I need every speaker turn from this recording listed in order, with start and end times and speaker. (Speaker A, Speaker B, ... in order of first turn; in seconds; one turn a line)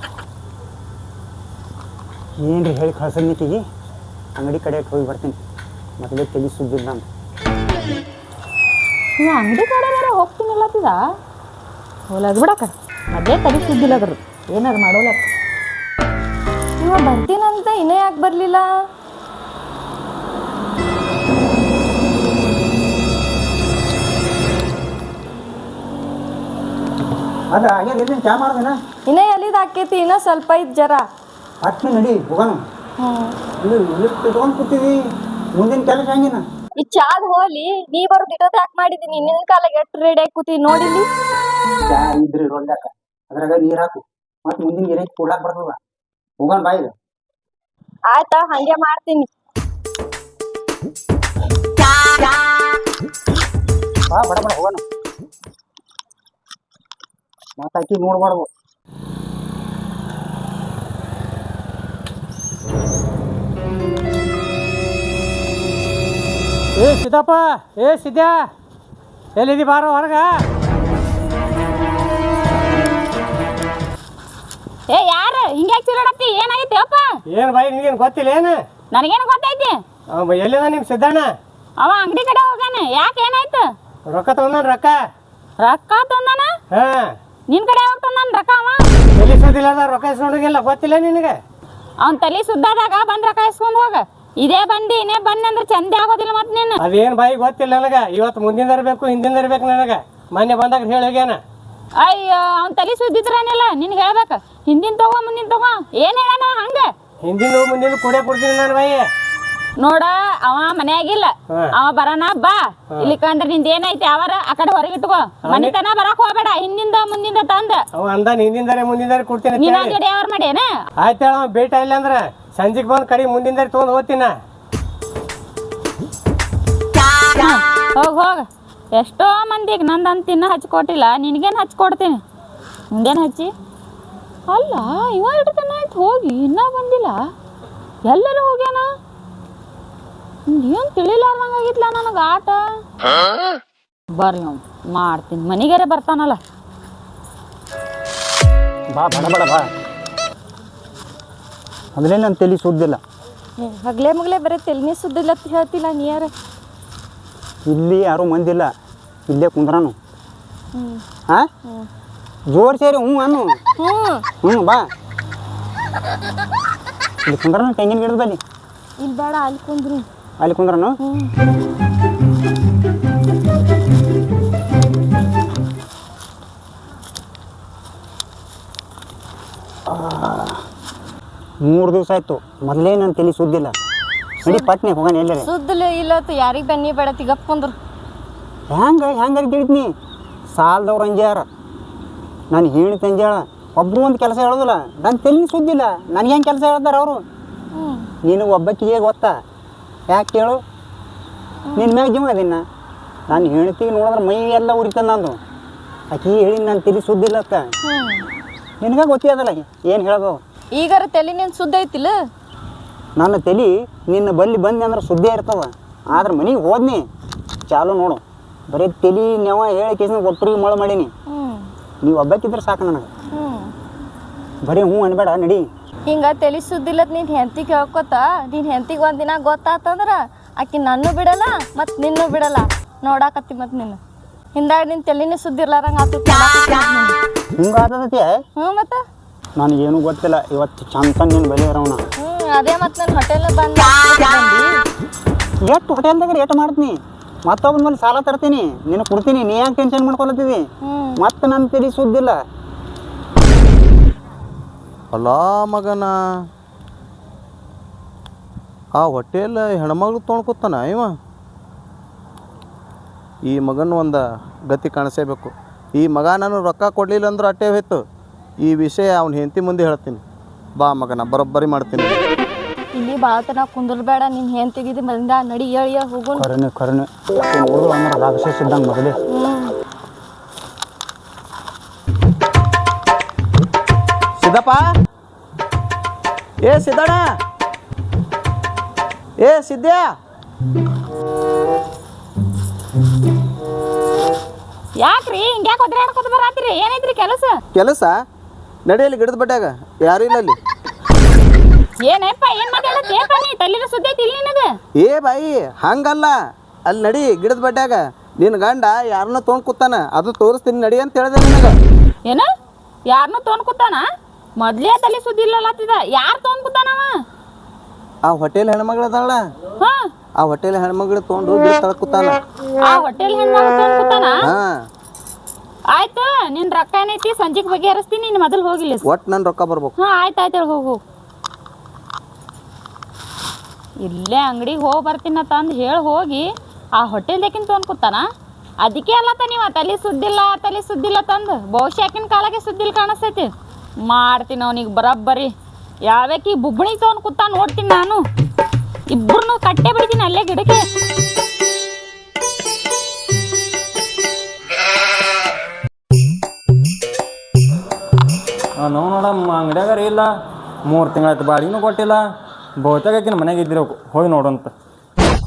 Speaker A: 2.4-3.6
Speaker A: 4.4-5.4
Speaker A: 6.0-7.0
Speaker B: 9.2-11.0
Speaker B: 12.1-15.2
Speaker C: 16.8-18.7
Speaker A: 27.5-28.7
Speaker C: 29.1-31.0
Speaker A: 31.6-32.6
Speaker C: 33.0-33.4
Speaker A: 33.6-35.0
Speaker A: 35.5-36.4
Speaker C: 36.8-41.1
Speaker A: 41.8-45.8
Speaker A: 46.4-46.9
Speaker C: 48.1-49.3
Speaker A: 54.1-54.8
Speaker A: 57.6-58.5
Speaker D: 66.8-68.5
Speaker D: 69.3-70.5
Speaker B: 74.9-77.1
Speaker D: 77.3-78.6
Speaker B: 78.9-79.8
Speaker D: 80.1-81.3
Speaker B: 81.8-83.7
Speaker D: 84.0-85.0
Speaker B: 85.6-86.5
Speaker D: 86.7-87.1
Speaker B: 87.5-88.8
Speaker D: 89.2-91.4
Speaker B: 92.0-96.8
Speaker D: 96.8-101.4
Speaker B: 102.0-106.9
Speaker D: 107.2-109.1
Speaker B: 109.8-117.8
Speaker D: 111.5-111.7
Speaker D: 115.4-115.7
Speaker D: 118.0-120.0
Speaker B: 119.5-120.7
Speaker D: 121.0-124.4
Speaker B: 127.4-132.2
Speaker B: 132.9-133.5
Speaker B: 134.5-137.2
Speaker B: 138.1-138.8
Speaker B: 140.5-142.6
Speaker B: 144.1-146.4
Speaker A: 148.9-149.7
Speaker A: 151.9-153.0
Speaker C: 153.6-156.3
Speaker A: 157.7-158.7
Speaker A: 159.3-159.9
Speaker C: 160.7-161.0
Speaker A: 162.5-163.5
Speaker C: 163.8-164.2
Speaker A: 164.4-164.8
Speaker A: 167.2-168.4
Speaker C: 169.0-170.0
Speaker A: 170.4-171.0
Speaker C: 171.0-171.3
Speaker A: 179.9-180.6
Speaker A: 181.6-183.7
Speaker C: 184.4-184.7
Speaker A: 184.4-185.5
Speaker C: 185.4-187.7
Speaker A: 188.7-189.9
Speaker A: 190.5-191.4
Speaker A: 192.5-197.2
Speaker C: 197.7-198.1
Speaker A: 198.2-199.4
Speaker A: 200.1-200.6
Speaker A: 201.8-202.6
Speaker A: 203.3-205.4
Speaker A: 206.1-207.7
Speaker C: 207.8-208.2
Speaker A: 208.8-210.4
Speaker C: 210.7-212.2
Speaker A: 213.2-217.0
Speaker A: 217.7-221.1
Speaker C: 221.3-221.7
Speaker A: 222.0-223.1
Speaker C: 223.3-223.7
Speaker A: 224.6-225.7
Speaker C: 226.1-234.0
Speaker C: 234.5-237.2
Speaker A: 237.5-238.4
Speaker C: 238.6-239.0
Speaker A: 239.6-242.0
Speaker C: 242.2-244.8
Speaker A: 245.6-252.4
Speaker C: 250.8-251.2
Speaker E: 255.1-256.2
Speaker E: 258.9-261.1
Speaker E: 263.4-268.0
Speaker E: 268.6-270.2
Speaker E: 270.8-272.2
Speaker C: 272.9-276.4
Speaker A: 276.3-279.2
Speaker C: 279.3-279.7
Speaker E: 284.4-284.9
Speaker E: 286.6-287.3
Speaker E: 289.4-290.1
Speaker B: 295.0-297.6
Speaker E: 297.7-298.2
Speaker E: 298.9-300.6
Speaker B: 302.0-304.7
Speaker E: 305.0-311.8
Speaker B: 313.1-314.0
Speaker B: 314.6-317.1
Speaker E: 318.2-319.4
Speaker B: 319.8-320.1
Speaker E: 320.4-322.4
Speaker B: 322.8-324.4
Speaker E: 324.4-324.7
Speaker B: 325.9-329.0
Speaker E: 329.0-329.9
Speaker B: 330.0-331.0
Speaker B: 334.0-336.4
Speaker B: 337.0-338.2
Speaker B: 338.8-343.5
Speaker B: 344.1-345.5
Speaker B: 346.1-348.2
Speaker B: 349.1-350.8
Speaker F: 358.8-360.3
Speaker F: 360.9-362.2
Speaker F: 362.8-364.7